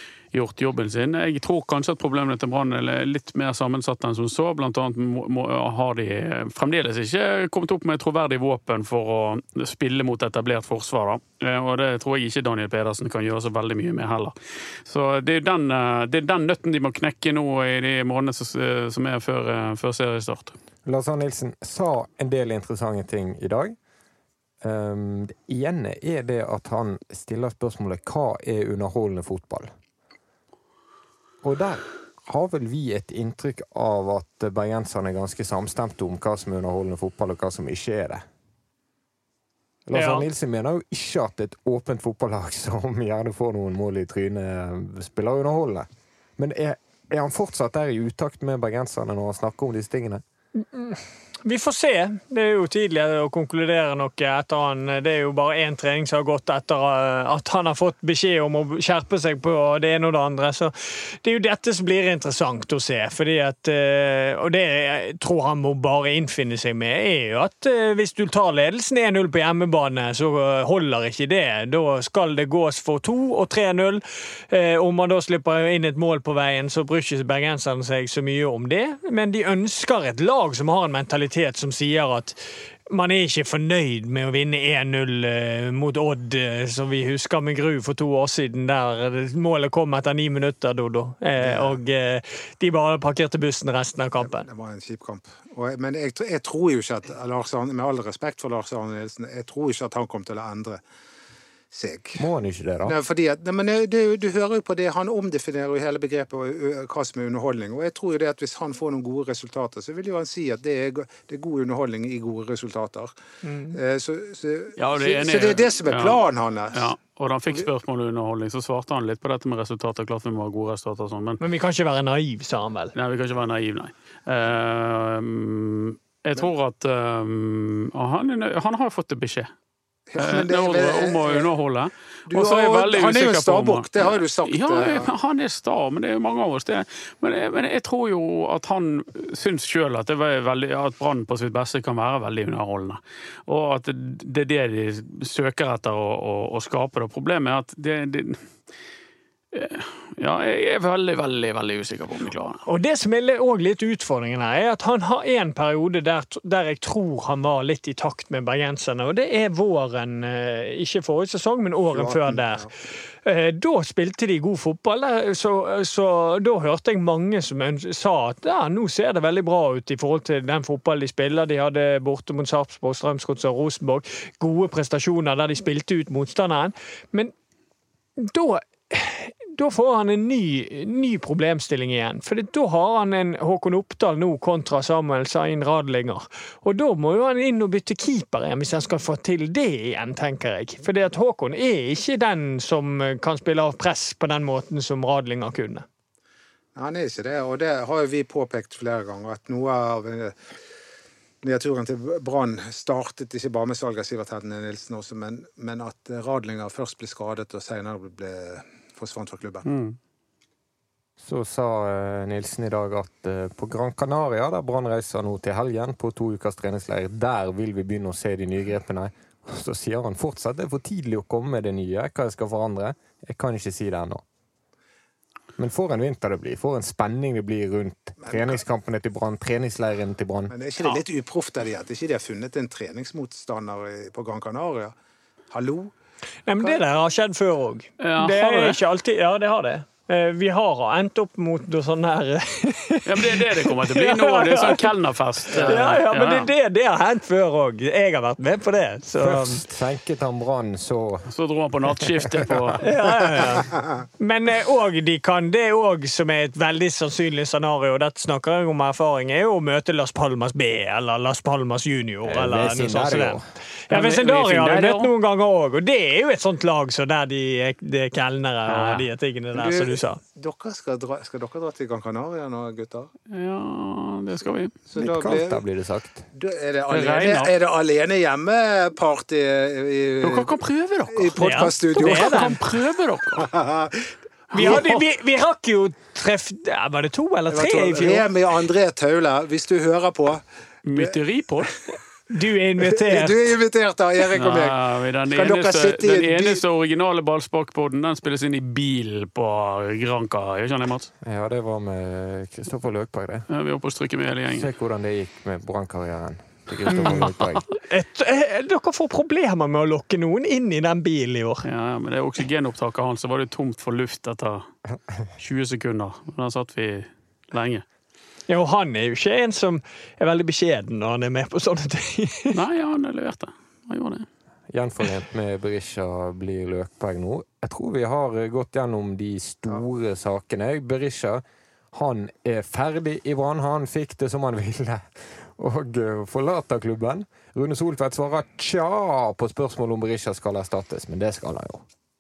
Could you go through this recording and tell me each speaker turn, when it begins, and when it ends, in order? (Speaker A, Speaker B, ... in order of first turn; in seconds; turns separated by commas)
Speaker A: 0.3-14.3, Speaker A: 14.9-20.6, Speaker B: 20.9-23.8, Speaker B: 24.6-29.7, Speaker B: 31.4-38.2, Speaker B: 39.9-50.2, Speaker C: 39.9-40.3, Speaker C: 50.7-94.5, Speaker D: 91.4-91.8, Speaker D: 94.2-100.8, Speaker D: 101.7-102.2, Speaker B: 102.2-103.0, Speaker D: 102.8-113.1, Speaker C: 113.4-113.8, Speaker D: 113.7-116.9, Speaker A: 114.8-116.2, Speaker A: 116.7-121.4, Speaker C: 121.4-123.0, Speaker A: 123.0-129.5, Speaker D: 130.1-131.5, Speaker A: 130.2-148.4, Speaker D: 132.3-135.1, Speaker A: 149.5-152.6, Speaker C: 152.7-162.7, Speaker D: 161.9-162.7, Speaker C: 163.2-177.3, Speaker C: 178.2-195.9, Speaker D: 196.8-200.4, Speaker D: 201.4-209.7, Speaker A: 209.7-210.0, Speaker B: 211.2-224.2, Speaker B: 225.6-230.5, Speaker D: 228.2-228.6, Speaker D: 230.5-234.9, Speaker D: 235.5-235.9, Speaker C: 236.5-244.9, Speaker A: 238.0-238.8, Speaker A: 243.1-246.5, Speaker D: 245.5-245.8, Speaker C: 245.6-249.6, Speaker B: 249.2-251.3, Speaker A: 251.3-252.9, Speaker C: 252.8-270.2, Speaker B: 262.2-263.4, Speaker A: 263.9-265.1, Speaker A: 268.7-269.1, Speaker D: 269.5-273.1, Speaker A: 273.3-274.8, Speaker D: 274.9-275.6, Speaker B: 275.0-276.3, Speaker D: 276.3-280.5, Speaker A: 276.9-277.5, Speaker A: 280.2-283.5, Speaker D: 281.1-282.4, Speaker C: 281.4-282.6, Speaker D: 283.4-284.1, Speaker A: 284.5-285.0, Speaker C: 284.5-288.3, Speaker D: 287.5-290.4, Speaker A: 290.9-291.8, Speaker D: 291.0-291.7, Speaker C: 292.3-293.6, Speaker D: 292.9-294.8, Speaker A: 294.3-301.1, Speaker D: 295.3-296.6, Speaker B: 301.2-303.5, Speaker A: 303.5-304.7, Speaker B: 304.5-307.7, Speaker C: 306.9-311.7, Speaker A: 306.9-307.4, Speaker A: 311.6-314.7, Speaker A: 315.4-317.9, Speaker C: 318.5-322.6, Speaker A: 322.5-324.3, Speaker B: 324.7-331.4, Speaker B: 331.9-341.8